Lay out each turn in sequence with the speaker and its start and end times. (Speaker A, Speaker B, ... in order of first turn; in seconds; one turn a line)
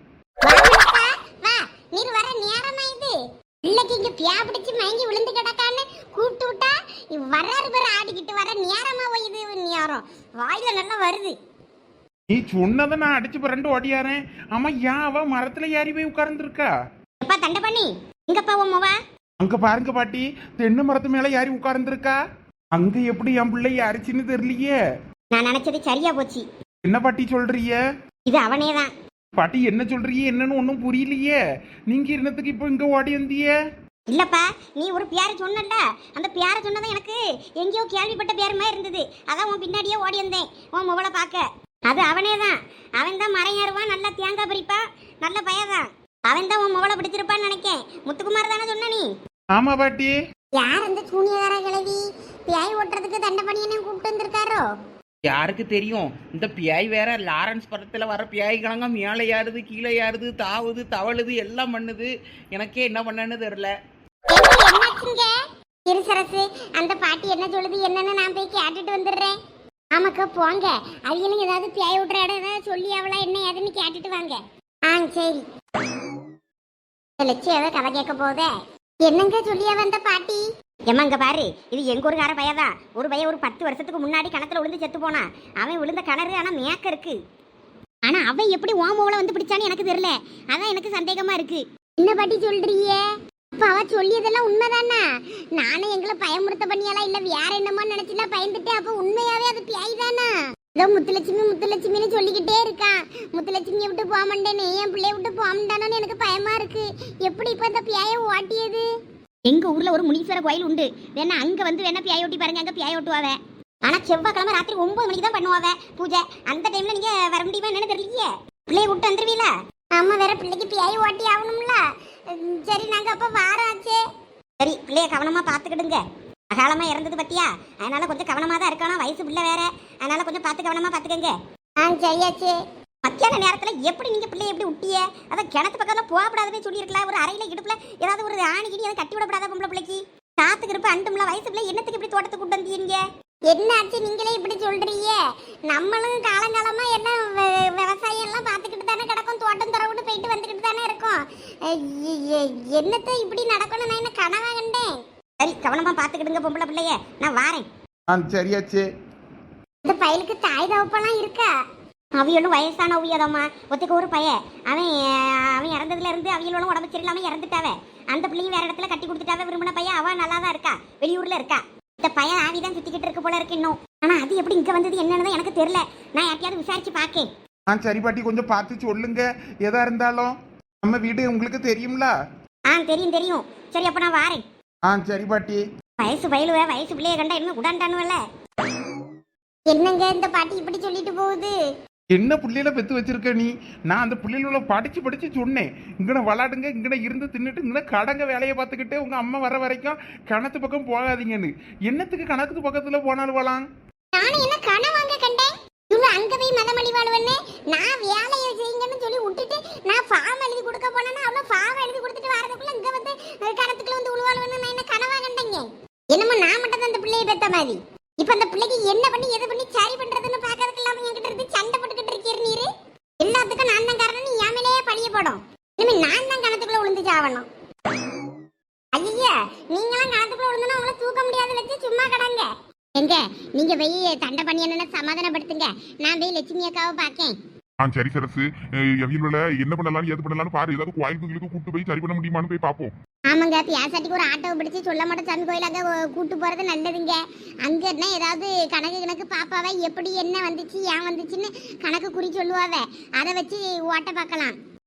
Speaker A: 0.4-11.4
Speaker B: 12.3-16.7
Speaker A: 17.2-19.0
Speaker B: 19.4-22.2
Speaker B: 22.8-24.8
Speaker A: 25.3-26.5
Speaker B: 26.9-27.8
Speaker A: 28.3-28.9
Speaker B: 29.4-33.5
Speaker A: 34.1-49.1
Speaker B: 49.5-50.1
Speaker A: 50.5-54.6
Speaker C: 55.3-63.7
Speaker A: 64.3-65.3
Speaker A: 65.9-69.4
Speaker A: 69.9-75.5
Speaker A: 77.2-78.5
Speaker A: 79.0-87.2
Speaker A: 88.0-93.0
Speaker A: 93.5-108.8
Speaker A: 109.5-124.0
Speaker A: 124.6-157.7
Speaker B: 158.1-158.9
Speaker A: 159.8-161.5
Speaker A: 162.2-177.3
Speaker B: 177.7-182.1
Speaker A: 182.7-184.4
Speaker B: 184.9-185.6
Speaker A: 186.0-188.2
Speaker A: 189.7-191.5
Speaker B: 192.2-203.6
Speaker A: 204.2-222.7
Speaker A: 223.2-227.5
Speaker A: 228.9-237.4
Speaker D: 237.8-242.9
Speaker A: 243.3-254.6